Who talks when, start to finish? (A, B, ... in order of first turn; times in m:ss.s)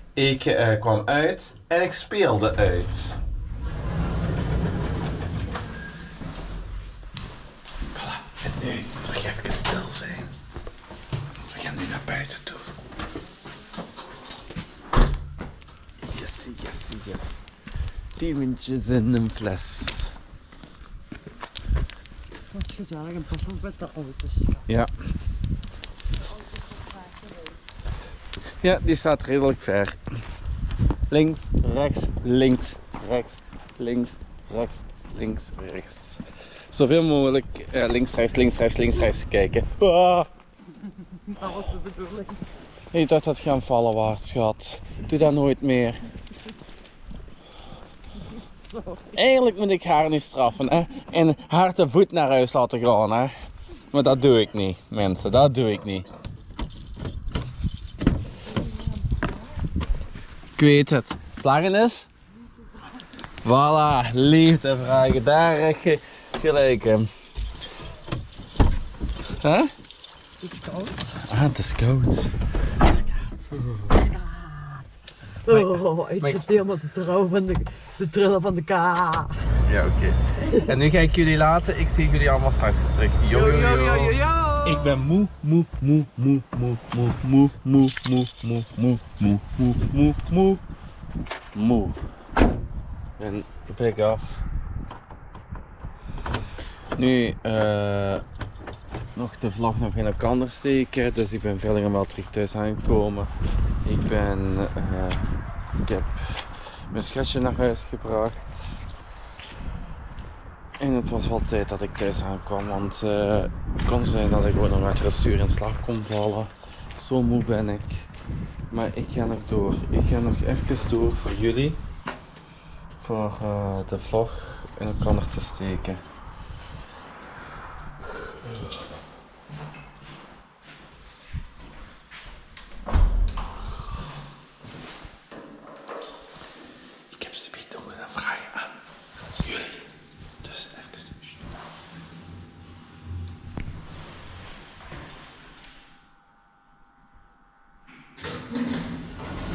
0:00.1-0:03.2 A
0:07.9-0:10.3 A
0:11.4-0:12.7 A
0:16.0-0:17.4 A
0:18.2-0:20.1 A
0:22.5-0:24.7 B
0:28.6-0:30.1 A
0:31.1-0:40.3 A
0:40.8-0:42.4 B
0:42.9-0:46.0 A
0:48.3-0:49.2 B
0:49.1-0:53.3 A
0:53.9-0:56.1 A
0:58.5-0:59.3 B
1:00.6-1:02.1 A
1:03.4-1:07.1 A
1:09.3-1:09.7 A
1:10.4-1:11.2 B
1:11.2-1:12.4 A
1:13.2-1:14.0 A
1:13.8-1:14.9 B
1:15.4-1:19.5 B
1:15.5-1:16.4 A
1:19.6-1:30.6 A
1:23.3-1:24.9 B
1:31.5-1:32.0 A
1:33.2-1:34.4 A
1:37.0-1:38.2 A
1:39.2-1:43.3 A
1:43.8-1:45.3 A
1:45.8-1:48.6 A
1:50.8-1:58.1 A
1:58.7-2:01.8 A
2:03.0-2:06.0 A
2:08.3-2:08.7 A
2:17.1-2:18.8 A
2:19.4-2:19.8 A
2:20.4-2:21.4 A